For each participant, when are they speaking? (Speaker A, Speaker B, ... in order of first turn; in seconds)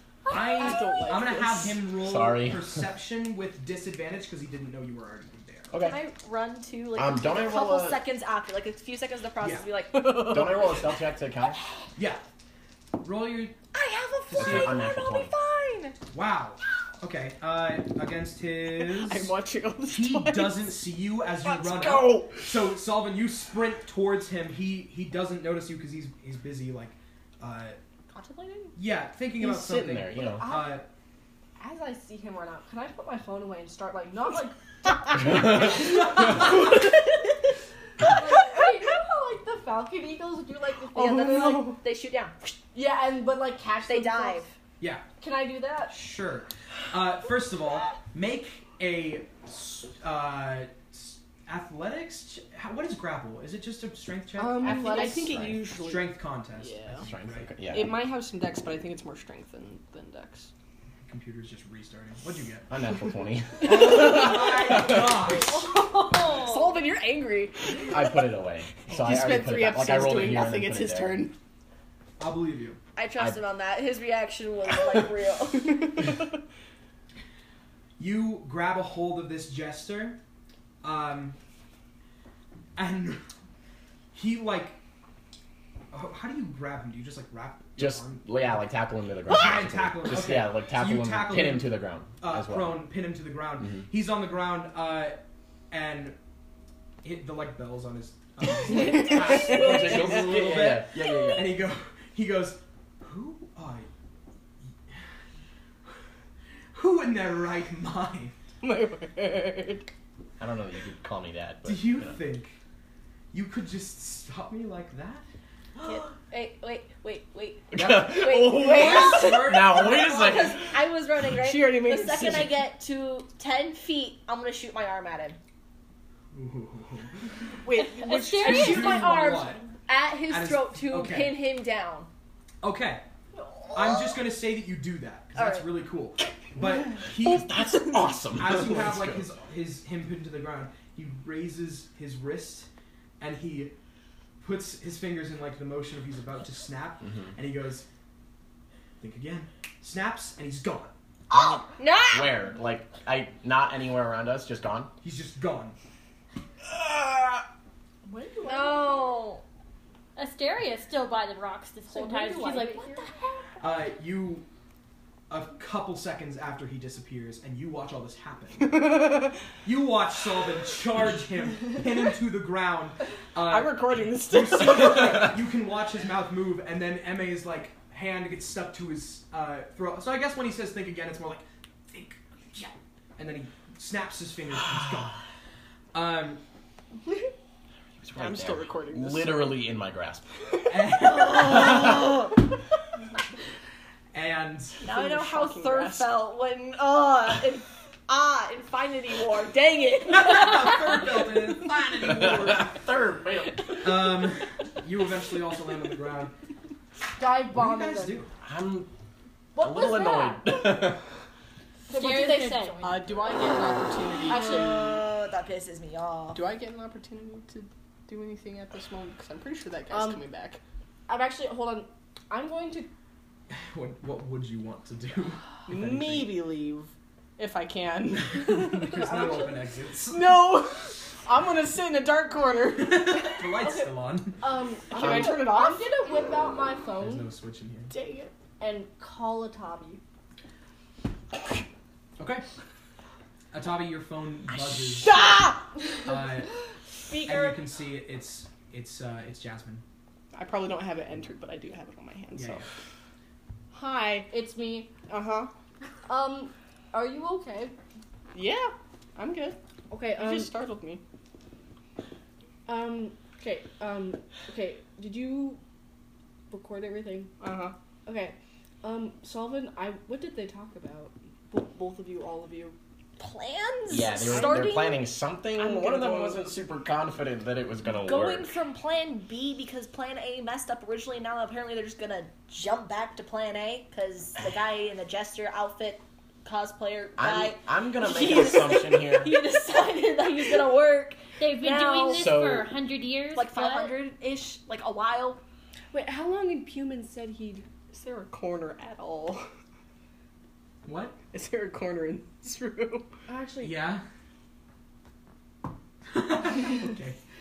Speaker A: 0.2-1.2, 127.7-129.4, 160.2-163.1, 211.9-212.9, 291.4-293.9
Speaker B: 0.3-5.8, 9.4-9.7, 12.0-12.2, 13.0-13.6, 14.3-14.8, 16.1-19.3, 19.9-27.8, 28.8-30.9, 44.8-45.1, 45.9-57.8, 61.0-62.7, 63.6-65.7, 72.2-72.8, 78.0-80.2, 80.8-81.4, 82.8-83.2, 84.1-84.8, 85.9-88.6, 89.3-95.2, 95.7-96.2, 97.0-103.9, 106.7-108.4, 111.7-112.6, 113.3-115.2, 117.8-120.6, 126.3-127.5, 128.3-129.7, 130.3-131.4, 132.6-133.0, 133.7-142.7, 143.2-143.8, 144.4-147.9, 149.0-150.9, 155.0-155.8, 163.6-164.5, 165.3-185.2, 185.9-186.4, 190.7-192.0, 194.1-194.8, 200.1-202.9, 203.8-206.3, 207.5-208.3, 223.5-226.4, 228.3-230.5, 232.8-234.5, 237.0-237.9, 242.2-242.4, 243.5-245.2, 246.1-246.5, 247.2-249.8, 252.3-252.7, 300.8-301.2, 303.6-304.0, 306.1-307.2
Speaker C: 0.3-1.8, 9.9-10.9, 14.8-15.9, 18.8-20.8, 28.1-28.8, 41.2-41.8, 54.4-57.1, 57.7-60.5, 65.6-71.3, 75.8-76.2, 98.7-100.0, 108.6-109.9, 121.3-122.6, 127.6-129.3, 168.7-169.3, 173.4-175.4, 188.1-189.6, 194.9-196.2, 212.8-215.0, 216.3-220.6, 225.7-229.0, 230.1-233.3, 234.9-235.9, 237.9-238.3, 245.0-245.7, 250.3-252.7, 253.7-254.3, 255.0-255.5, 258.3-259.6, 260.1-261.0, 267.4-267.8, 275.6-276.4, 297.9-299.5, 301.3-303.1
Speaker D: 2.0-2.8, 5.7-6.0, 7.0-8.0, 10.2-11.6, 14.3-15.3, 29.4-30.5, 55.2-55.6, 57.0-58.0, 62.7-65.0, 67.9-71.3, 87.8-92.8, 98.7-101.6, 110.4-112.2, 117.7-120.8, 137.1-139.3, 151.3-151.6, 152.1-154.9, 156.8-157.4, 188.0-190.3, 202.0-204.0, 208.4-208.9, 209.6-211.0, 273.9-278.6, 287.2-289.4, 292.1-292.7
Speaker E: 5.8-10.7, 13.7-15.9, 41.0-42.3, 43.8-44.5, 73.0-76.0, 115.8-125.4, 128.6-132.1, 133.5-134.0, 135.3-135.7, 151.3-152.4, 158.4-159.4, 191.1-192.3, 194.8-201.0, 214.3-216.4, 273.2-275.0, 277.9-292.3, 293.3-295.4
Speaker F: 30.4-30.8, 31.6-36.6, 38.0-41.6, 42.7-44.5, 45.2-46.0, 54.6-55.4, 158.1-159.2, 161.9-163.2, 207.2-208.2, 209.6-210.9, 211.9-213.1, 214.3-214.9, 219.9-220.2, 221.1-222.9, 228.9-229.6, 233.6-237.3, 238.6-240.0, 247.1-247.6, 254.3-254.9, 256.1-257.8, 259.9-260.5, 262.7-265.6, 266.5-267.3, 268.1-272.8, 295.9-297.7, 303.3-303.8